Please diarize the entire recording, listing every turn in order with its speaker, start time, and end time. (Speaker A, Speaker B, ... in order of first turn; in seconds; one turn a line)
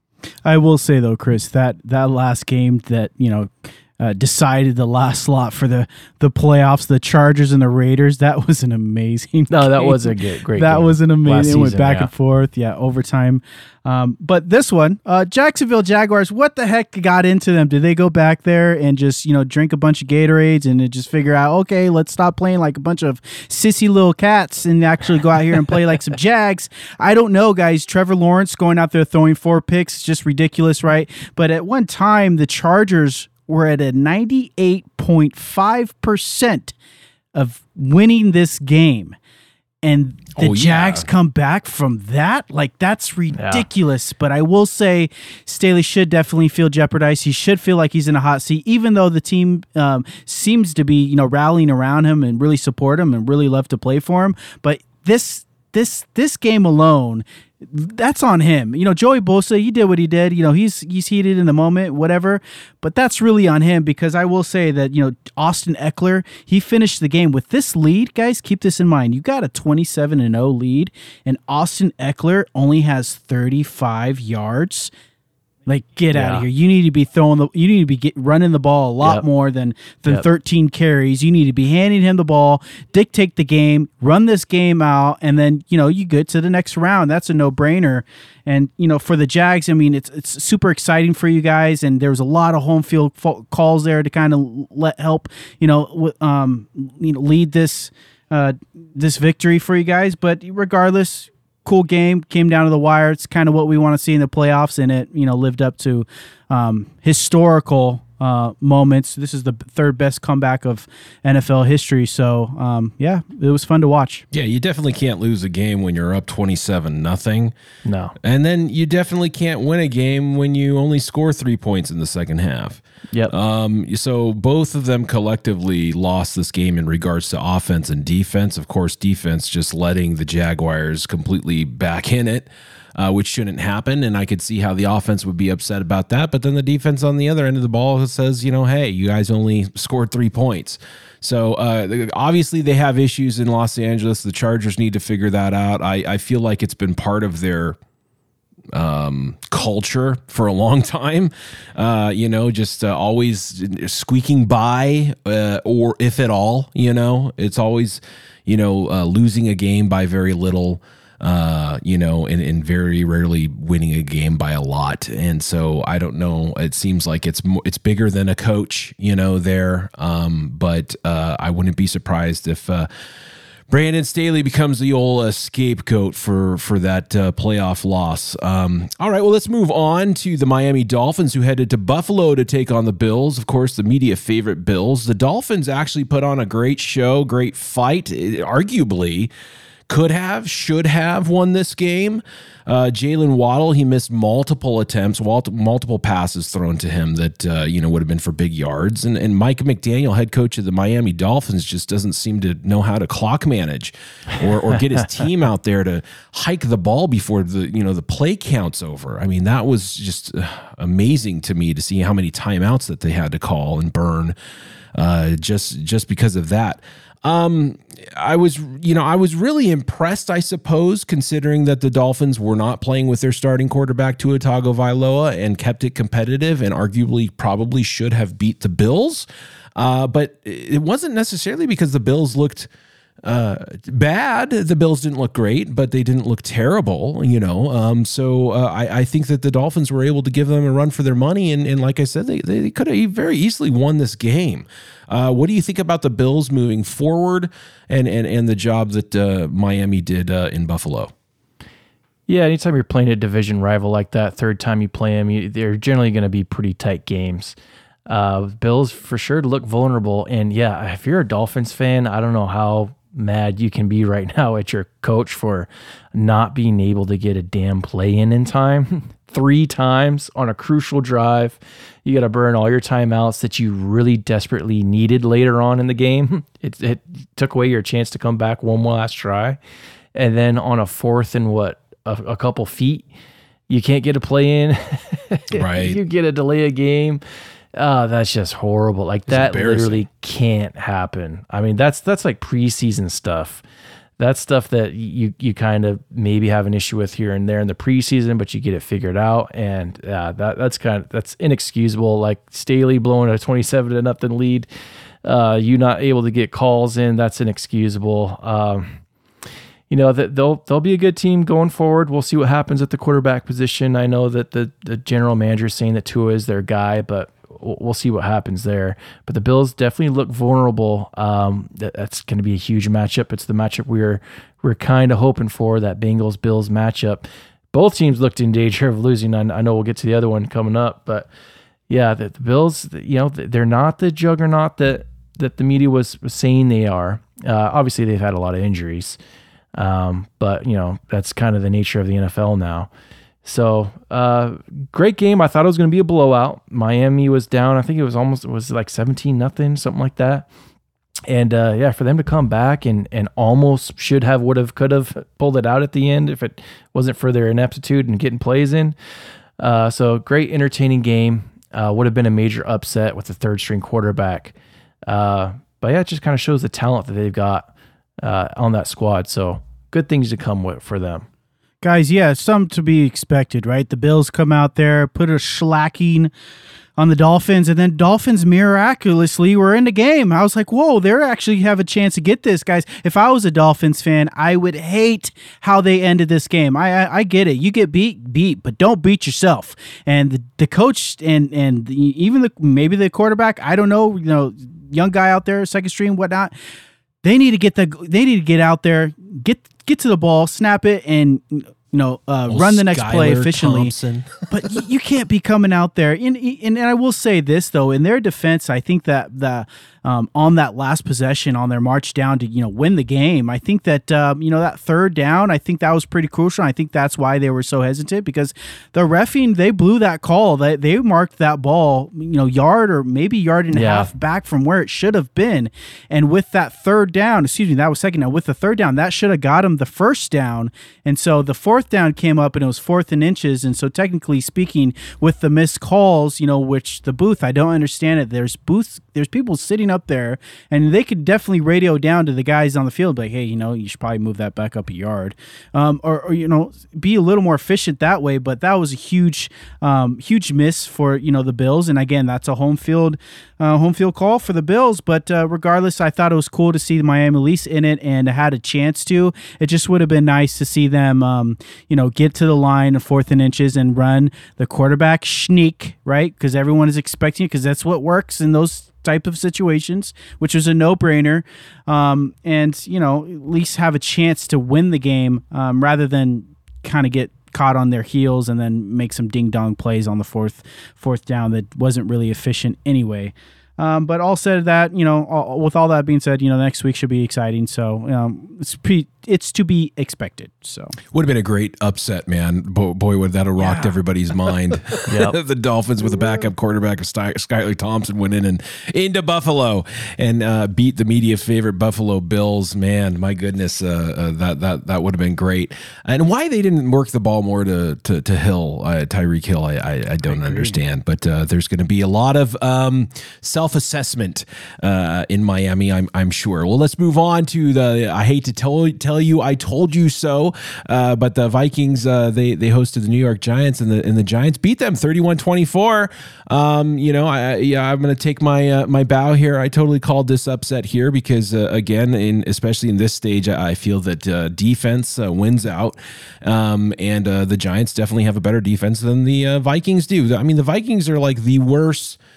Speaker A: 0.4-36.7
Speaker B: 9.5-12.1
Speaker A: 37.3-39.1
Speaker A: 39.8-74.9
Speaker C: 40.4-41.1
Speaker B: 43.4-43.7
Speaker A: 75.7-114.2
Speaker B: 76.1-76.5
Speaker C: 114.3-117.5
Speaker B: 117.8-118.1
Speaker C: 118.2-147.8
Speaker C: 148.7-172.9
Speaker C: 173.7-189.3
Speaker C: 189.9-214.3
Speaker C: 214.9-232.7
Speaker C: 233.2-251.1
Speaker B: 252.3-257.6
Speaker B: 258.1-279.6
Speaker B: 280.1-283.1
Speaker B: 283.7-287.2
Speaker C: 285.5-286.0
Speaker B: 287.7-293.6
Speaker C: 289.3-290.0
Speaker B: 294.2-304.7
Speaker B: 305.2-309.0
Speaker B: 309.9-331.3
Speaker B: 331.9-339.2
Speaker B: 339.8-342.9
Speaker B: 343.4-350.5
Speaker B: 351.3-358.9
Speaker B: 359.6-364.5
Speaker B: 365.1-367.7
Speaker B: 368.2-371.2
Speaker A: 371.8-376.3
Speaker A: 377.0-396.5
Speaker A: 397.2-403.9
Speaker C: 402.5-404.8
Speaker A: 404.5-490.9
Speaker B: 423.7-424.1
Speaker C: 491.1-542.2
Speaker A: 493.6-493.9
Speaker B: 495.1-495.4
Speaker A: 510.3-510.8